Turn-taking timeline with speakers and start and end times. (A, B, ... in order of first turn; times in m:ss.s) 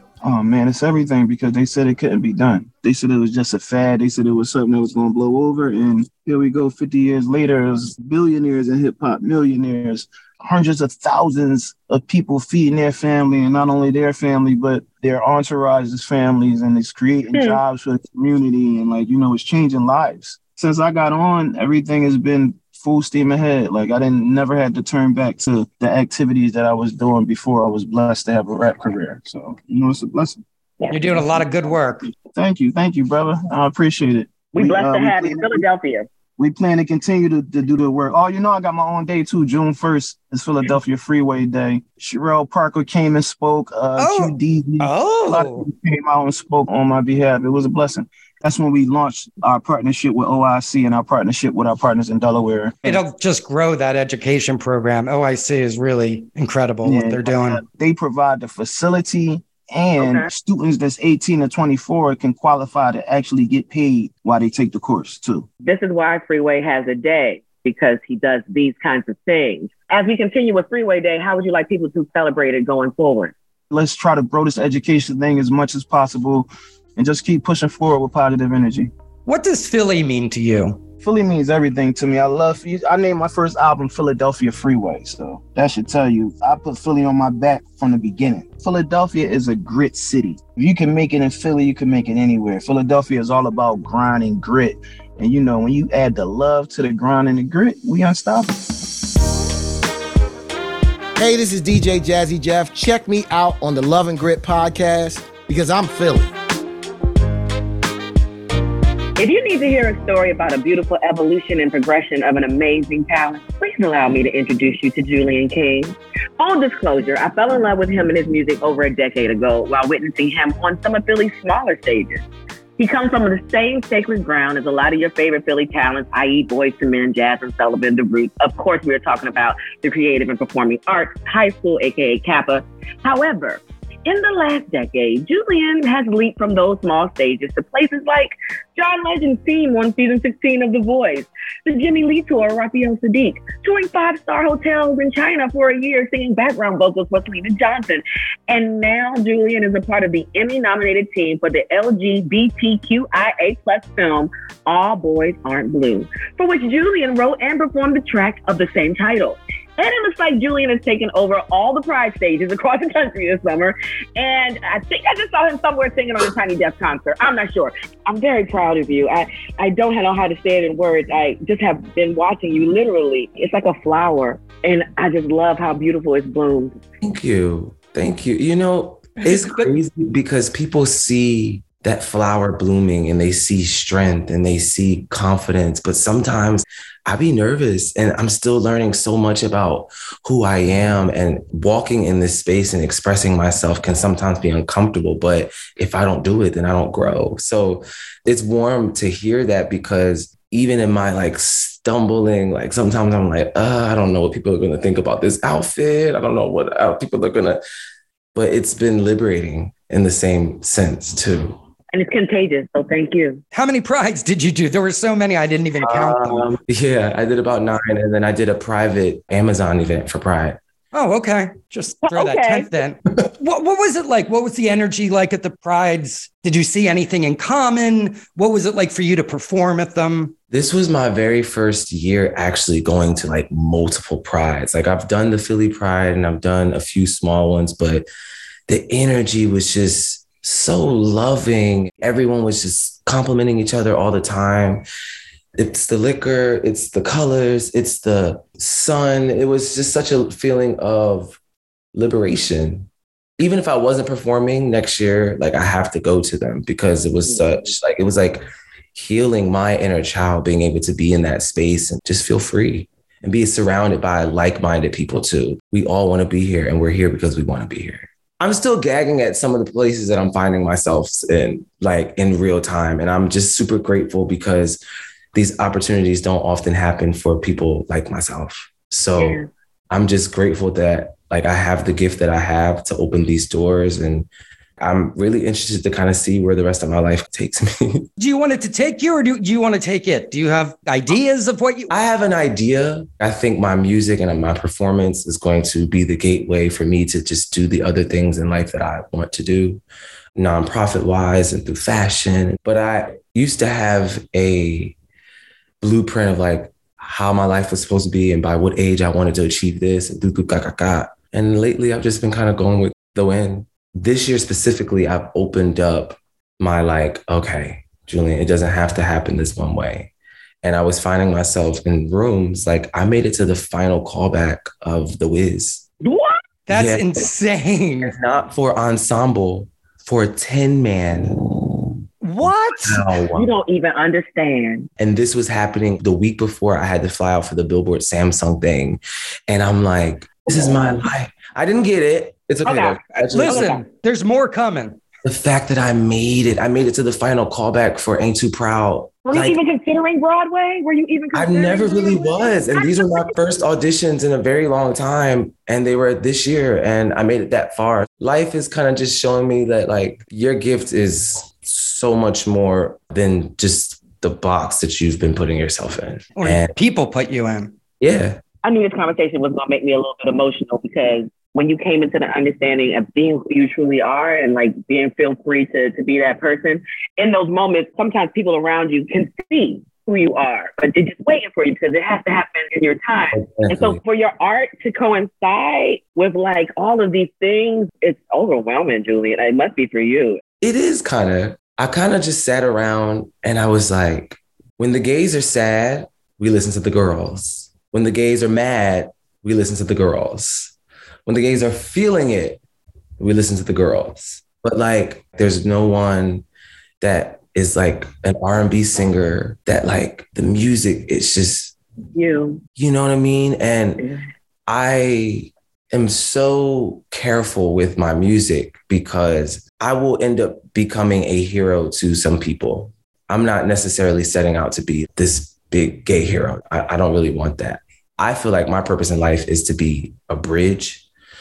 0:00.2-0:30.4 A
0:17.3-0:17.6 B
0:30.8-0:31.2 B
0:30.9-0:32.0 C
0:32.3-0:35.6 A
0:34.5-0:36.1 B
0:36.4-0:53.0 A
0:44.0-0:45.7 C
0:52.8-0:57.6 C
0:56.8-1:05.5 A
1:00.0-1:00.3 B
1:05.6-1:13.3 B
1:13.7-1:18.9 A
1:19.2-1:20.8 C
1:21.0-1:38.6 A
1:41.2-1:46.3 D
1:49.2-2:02.2 B
2:02.8-2:56.8 B
2:57.0-3:27.6 E
2:59.2-2:59.7 C
3:28.3-3:31.6 E
3:31.9-3:33.4 B
3:33.5-3:36.4 C
3:35.8-3:40.6 E
3:40.9-3:50.3 C
3:42.0-3:42.7 B
3:50.5-3:58.0 E
3:58.7-4:04.8 E
4:05.6-4:11.4 E
4:11.9-4:12.9 E
4:13.4-4:18.4 E
4:17.2-4:17.7 B
4:18.9-4:34.8 E
4:35.3-4:44.3 E
4:39.2-4:39.5 B
4:44.8-4:48.1 E
4:48.2-4:51.9 C
4:51.9-4:59.8 E
5:00.4-5:04.9 E
5:05.8-5:20.1 E
5:20.6-5:25.8 E
5:26.0-5:26.4 B
5:26.7-5:28.1 C
5:26.7-5:27.3 E
5:28.0-5:31.5 E
5:32.2-5:33.0 C
5:32.4-5:33.5 E
5:33.3-5:34.9 B
5:35.0-5:43.7 E
5:42.6-5:43.8 B
5:43.3-5:45.0 C
5:45.2-5:49.6 E
5:49.2-5:53.3 B
5:51.3-6:06.7 E
6:06.4-6:07.7 C
6:08.0-6:08.4 E
6:08.6-6:30.4 B
6:23.3-6:24.0 E
6:30.6-6:40.7 E
6:41.2-6:42.6 E
6:43.2-6:46.4 E
6:47.0-6:51.7 E
6:52.1-6:52.6 B
6:52.8-6:54.0 E
6:54.7-7:11.0 E